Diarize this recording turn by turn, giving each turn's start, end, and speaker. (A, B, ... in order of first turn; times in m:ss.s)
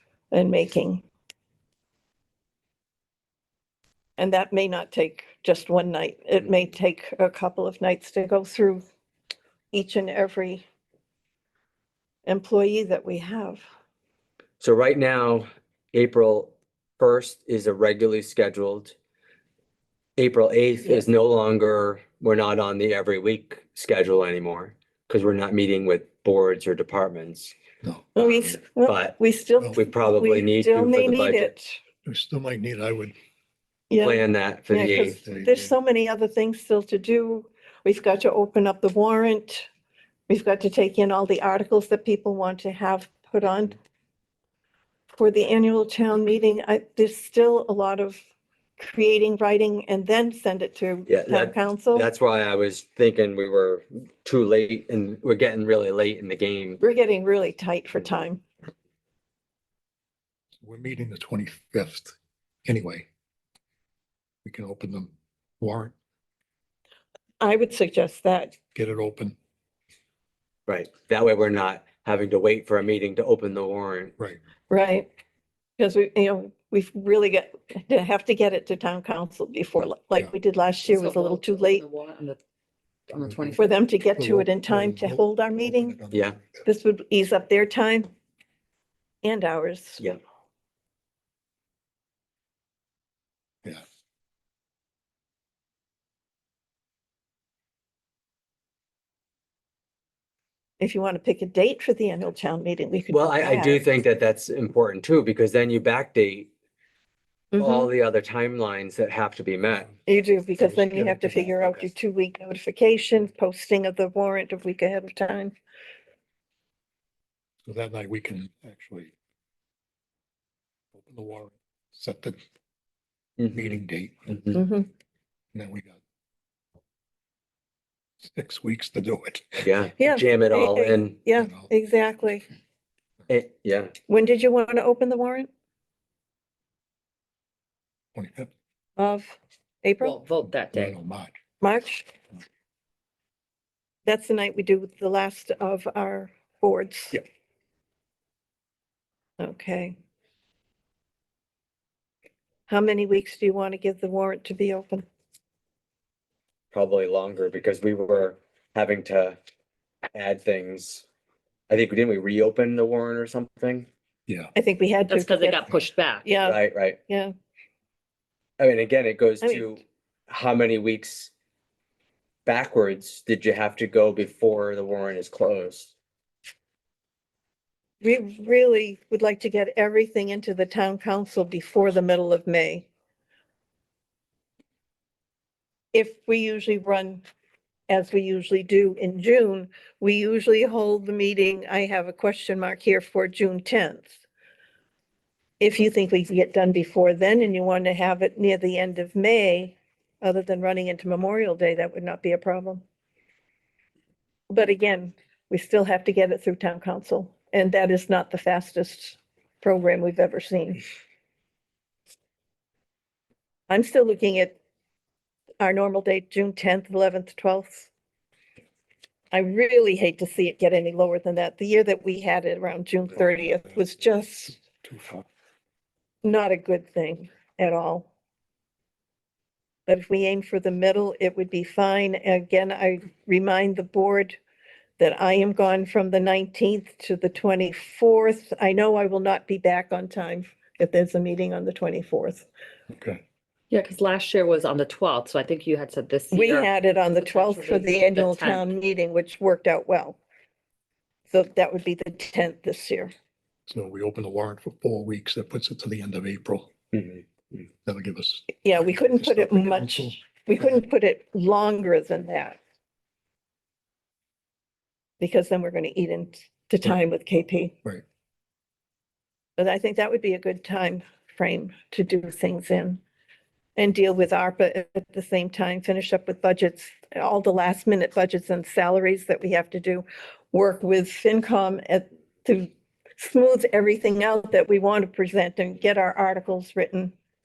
0:00.3-0:01.0 A
0:04.2-0:08.8 A
0:09.7-0:10.6 A
0:12.2-0:13.6 A
0:14.6-0:18.9 B
0:20.2-0:27.5 B
0:27.8-0:28.1 C
0:28.2-0:31.8 A
0:28.8-0:29.2 B
0:29.7-0:31.5 B
0:32.0-0:33.1 C
0:33.9-0:39.7 A
0:34.0-0:35.2 B
0:35.0-0:35.7 C
0:40.3-0:43.8 A
0:45.1-0:48.2 A
0:48.8-0:52.1 A
0:51.1-0:56.8 B
0:56.8-0:58.4 A
1:00.6-1:02.1 C
1:02.6-1:03.0 C
1:04.4-1:05.9 C
1:07.4-1:08.6 A
1:08.7-1:09.4 C
1:10.7-1:14.1 B
1:14.7-1:15.1 A
1:15.8-1:21.8 A
1:20.9-1:22.4 D
1:23.1-1:23.6 D
1:23.2-1:26.6 C
1:23.6-1:26.0 A
1:26.1-1:26.4 B
1:26.6-1:28.1 A
1:29.2-1:30.0 A
1:40.8-1:43.8 A
1:43.1-1:46.5 B
1:47.5-1:47.9 A
1:47.6-1:50.0 B
1:50.0-1:55.5 A
1:50.6-1:51.6 C
1:57.6-1:59.1 C
2:00.9-2:02.4 C
2:03.5-2:04.6 C
2:04.5-2:04.9 A
2:05.5-2:06.0 C
2:08.2-2:09.7 C
2:09.6-2:11.2 B
2:10.0-2:12.4 A
2:11.4-2:11.7 C
2:13.3-2:13.9 B
2:14.1-2:15.5 A
2:18.1-2:18.5 C
2:19.0-2:20.2 A
2:20.0-2:20.9 D
2:20.7-2:21.3 C
2:21.6-2:22.1 A
2:24.0-2:27.2 A
2:29.4-2:30.0 A
2:32.7-2:35.0 A
2:36.7-2:39.4 B
2:40.1-2:41.0 B
2:41.7-2:43.9 B
2:44.3-2:44.5 C
2:44.5-2:45.7 A
2:45.1-2:46.3 D
2:46.2-2:47.3 A
2:46.4-2:47.0 B
2:48.6-2:51.3 B
2:49.4-2:49.7 A
2:52.4-2:55.9 B
2:58.0-3:02.9 A
3:05.9-3:07.2 A
3:07.9-3:14.2 A
3:15.6-3:22.8 A
3:24.5-3:30.8 A
3:33.7-3:34.6 A
3:35.6-3:37.9 A
3:39.3-3:44.6 A
3:44.6-3:45.2 C
3:46.2-3:48.1 A
3:49.9-3:54.4 A
3:55.0-4:02.4 A
4:02.9-4:03.2 C
4:03.7-4:08.7 D
4:06.3-4:10.2 A
4:11.3-4:13.1 A
4:13.7-4:16.7 C
4:17.8-4:20.2 C
4:18.6-4:22.6 A
4:25.2-4:27.7 A
4:29.6-4:33.0 A
4:33.8-4:47.1 A